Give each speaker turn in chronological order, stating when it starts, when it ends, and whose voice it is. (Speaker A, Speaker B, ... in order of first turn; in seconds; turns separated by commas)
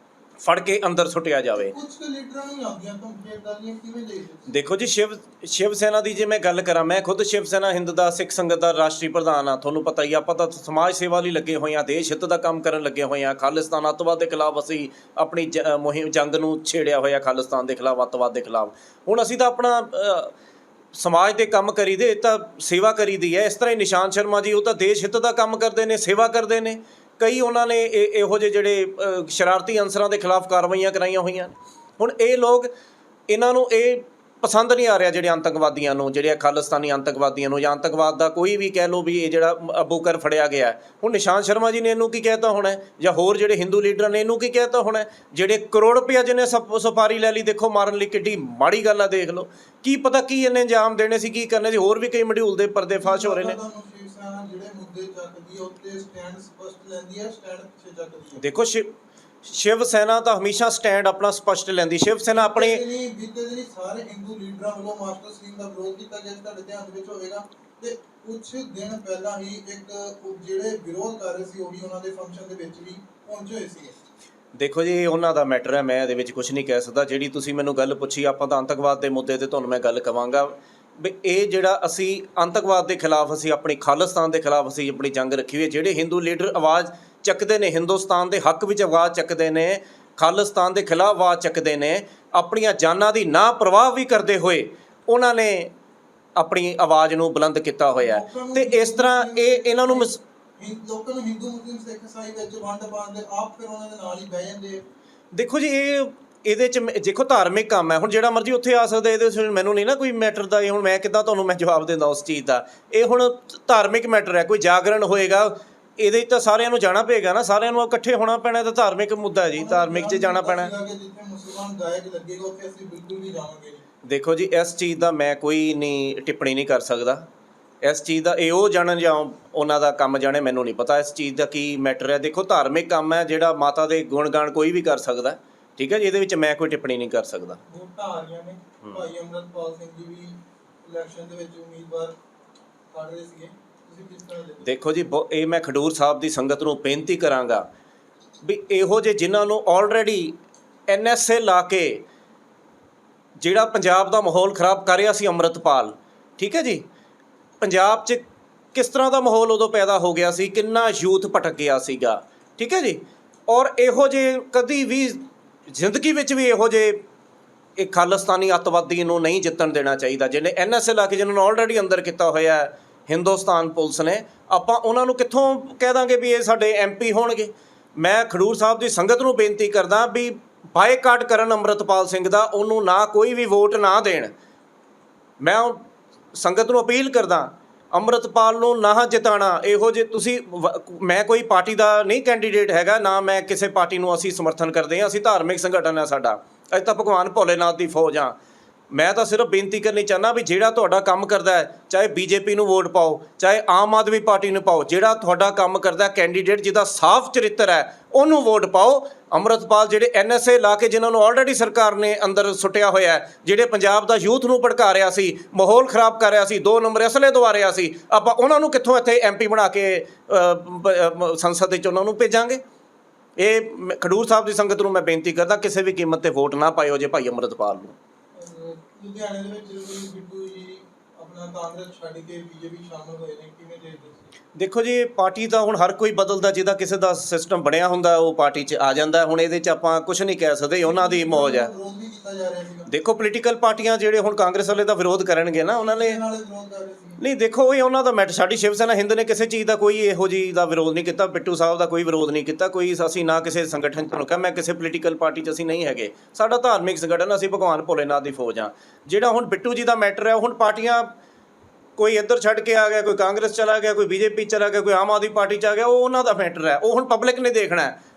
Speaker A: 0.4-1.7, Speaker B: 1.6-4.5, Speaker A: 4.5-20.3, Speaker A: 20.9-32.7, Speaker A: 33.3-53.6, Speaker B: 53.0-58.4, Speaker A: 58.4-58.9, Speaker A: 59.4-62.8, Speaker B: 62.3-74.0, Speaker A: 74.6-95.7, Speaker A: 96.4-100.2, Speaker B: 98.0-104.8, Speaker A: 105.3-120.7, Speaker B: 119.6-123.8, Speaker A: 124.1-127.2, Speaker A: 127.8-137.6, Speaker B: 137.7-142.2, Speaker A: 138.8-139.1, Speaker B: 142.9-144.8, Speaker A: 144.6-147.7, Speaker A: 148.4-150.4, Speaker A: 150.9-152.1, Speaker A: 153.4-156.8, Speaker A: 157.6-158.2, Speaker A: 158.7-167.0, Speaker A: 167.8-184.3, Speaker A: 185.4-198.4, Speaker A: 198.9-222.6, Speaker A: 223.4-228.0, Speaker B: 228.3-234.3, Speaker A: 234.6-241.7, Speaker B: 240.8-242.9, Speaker A: 242.9-246.2, Speaker B: 245.8-247.2, Speaker A: 247.2-261.1, Speaker A: 262.0-268.0